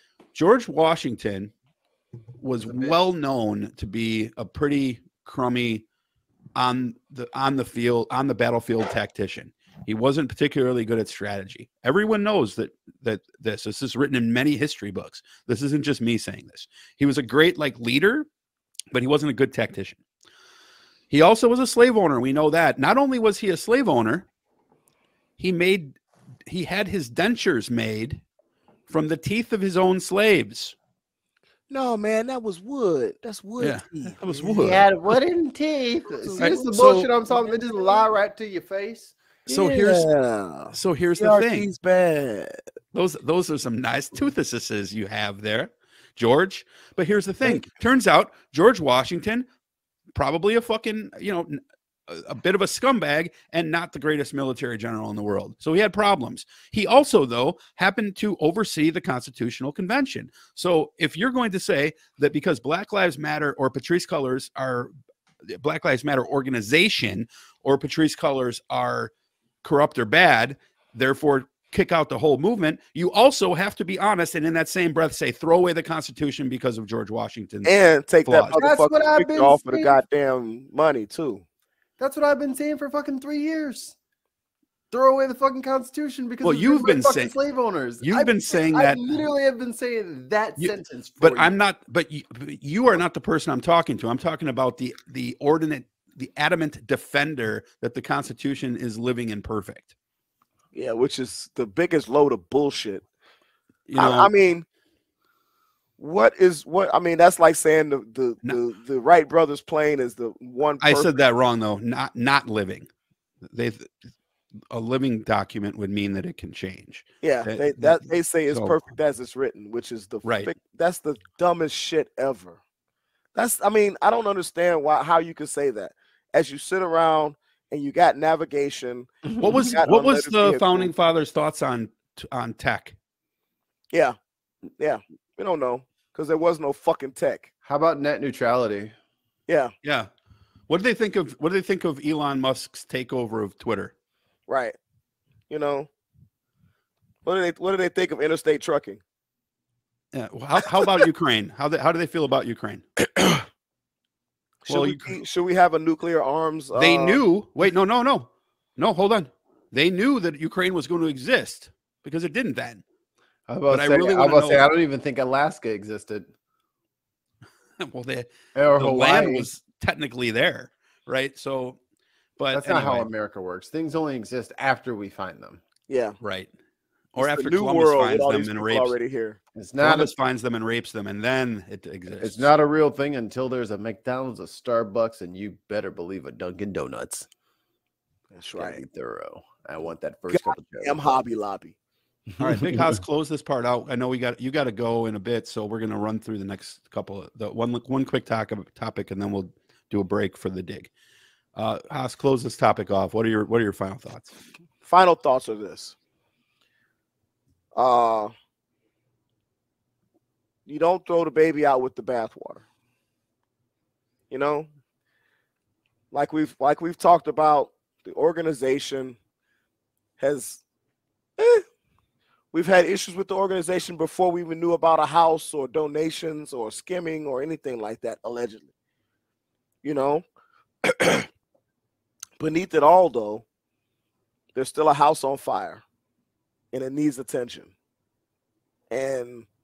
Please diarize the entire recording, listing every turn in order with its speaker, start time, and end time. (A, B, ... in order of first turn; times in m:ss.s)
0:00.3-0:01.5 A
0:02.4-0:05.8 A
0:06.6-0:18.3 A
0:18.9-0:20.0 A
0:21.1-0:24.3 A
0:25.4-0:28.2 A
0:28.9-0:30.8 A
0:31.7-0:34.2 B
0:33.6-0:34.9 A
0:34.3-0:39.2 C
0:36.1-0:37.6 B
0:36.4-0:37.1 A
0:39.5-0:40.1 A
0:39.5-0:42.6 B
0:40.7-0:41.7 A
0:42.9-0:49.5 A
0:50.1-1:04.9 A
1:05.5-1:09.1 A
1:09.6-1:17.7 A
1:17.6-1:21.4 B
1:18.2-1:18.6 A
1:18.5-1:20.0 C
1:22.0-1:24.0 C
1:24.9-1:31.6 C
1:26.4-1:27.3 A
1:28.0-1:29.2 A
1:30.6-1:39.9 A
1:40.7-1:43.0 B
1:43.9-1:44.3 A
1:44.0-1:44.6 B
1:46.0-1:51.1 B
1:50.8-1:52.9 A
1:53.4-1:53.9 A
1:54.7-1:58.8 A
1:57.2-2:02.6 B
2:00.2-2:00.5 A
2:03.3-2:10.9 B
2:09.4-2:13.0 A
2:14.8-2:17.5 B
2:17.6-2:18.9 C
2:19.8-2:20.1 A
2:20.7-2:23.9 A
2:24.5-2:24.8 B
2:25.5-2:25.9 B
2:27.2-2:29.0 B
2:30.1-2:32.9 A
2:34.6-2:37.2 B
2:34.7-2:35.2 A
2:36.7-2:42.8 A
2:43.5-2:46.3 C
2:43.7-2:44.7 A
2:47.8-2:51.8 A
2:48.5-2:49.5 C
2:52.4-2:53.1 A
2:52.5-2:55.6 C
2:55.9-2:56.2 B
2:56.2-2:56.5 A
2:57.1-2:58.9 A
2:57.2-2:59.4 B
2:59.6-3:00.1 C
2:59.8-3:02.5 A
3:02.2-3:07.3 C
3:08.3-3:08.8 B
3:08.6-3:11.2 C
3:10.3-3:11.8 B
3:12.4-3:13.0 C
3:12.4-3:20.9 A
3:21.5-3:24.3 A
3:24.8-3:26.0 B
3:27.7-3:28.3 B
3:30.6-3:32.6 B
3:34.3-3:34.7 B
3:36.1-3:39.2 B
3:40.2-3:40.6 B
3:41.4-3:41.6 B
3:42.5-3:48.7 B
3:49.8-3:50.2 B
3:50.8-3:51.3 B
3:52.4-3:53.4 B
3:54.5-3:55.8 B
3:56.7-3:57.7 B
3:58.9-3:59.4 B